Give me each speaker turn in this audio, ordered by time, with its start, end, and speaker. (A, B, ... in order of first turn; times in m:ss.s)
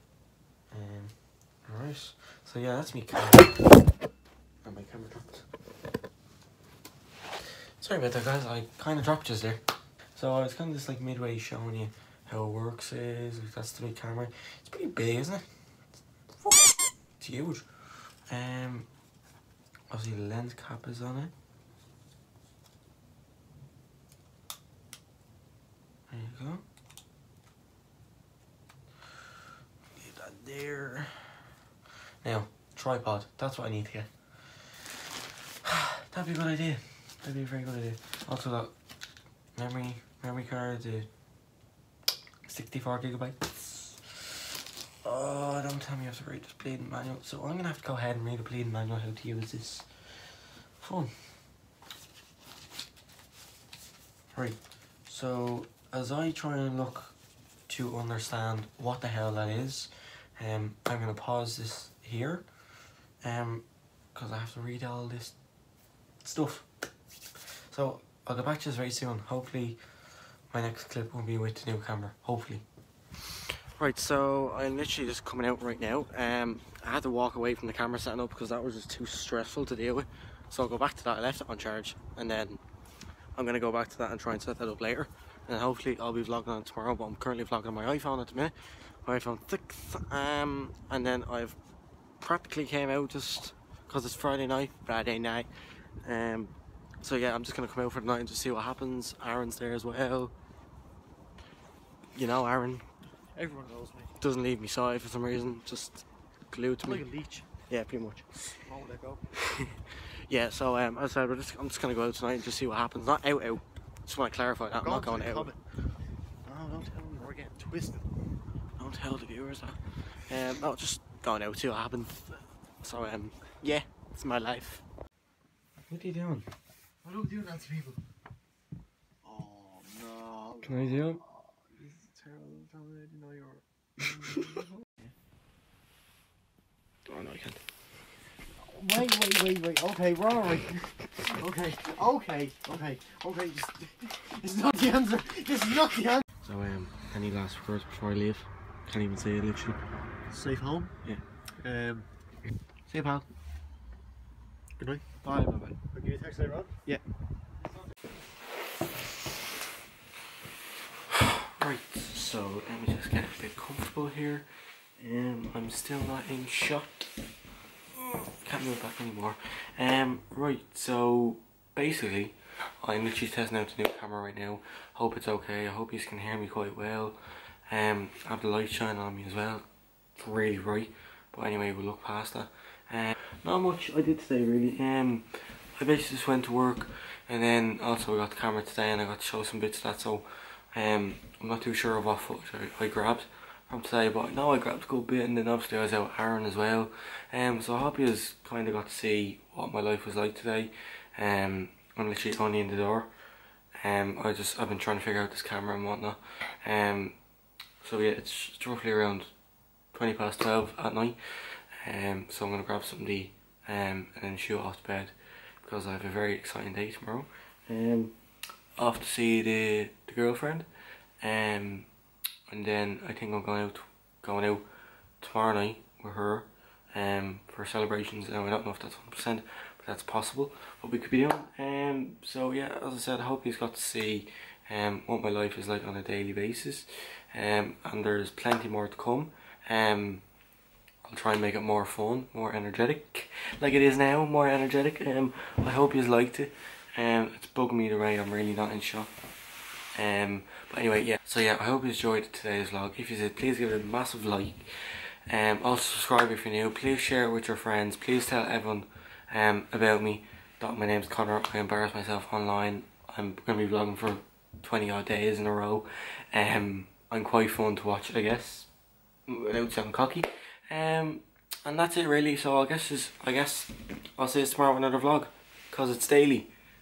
0:00.7-0:03.9 A
0:04.6-0:05.5 A
0:07.8-0:09.6 A
0:10.1-0:18.9 A
0:19.9-0:21.3 A
0:26.1-0:26.6 A
0:30.0-0:31.4 A
0:32.2-0:35.0 A
0:35.6-0:38.7 A
0:39.6-0:41.1 A
0:42.4-0:44.5 A
0:45.0-0:51.1 A
0:54.3-0:57.2 A
0:57.7-1:02.5 A
1:03.2-1:05.4 A
1:06.2-1:06.7 A
1:07.7-1:09.8 A
1:10.5-1:12.6 A
1:13.3-1:22.6 A
1:23.3-1:31.6 A
1:32.2-1:40.3 A
1:42.1-1:42.8 A
1:43.4-1:44.1 B
1:44.2-1:47.0 A
1:46.8-1:47.4 B
1:47.6-1:48.5 A
1:48.6-1:49.2 B
1:49.4-1:55.5 A
1:54.7-1:55.6 B
1:56.5-1:58.0 B
1:58.8-2:04.8 A
2:05.9-2:06.5 A
2:07.0-2:08.0 B
2:09.2-2:15.1 B
2:10.6-2:11.2 A
2:17.1-2:17.6 A
2:18.6-2:26.2 B
2:26.4-2:29.8 A
2:30.3-2:30.9 B
2:31.6-2:32.1 B
2:32.9-2:33.2 B
2:34.8-2:37.0 B
2:41.1-2:44.5 A
2:45.0-2:47.1 A
2:47.9-2:59.6 A
3:00.2-3:23.1 A
3:23.8-3:27.2 A
3:27.8-3:29.3 A
3:29.9-3:38.2 A
3:38.8-3:40.7 A
3:41.2-3:41.9 A
3:42.5-3:44.6 A
3:45.2-4:00.2 A
4:01.0-4:09.1 A
4:09.9-4:28.7 A
4:29.3-4:36.5 A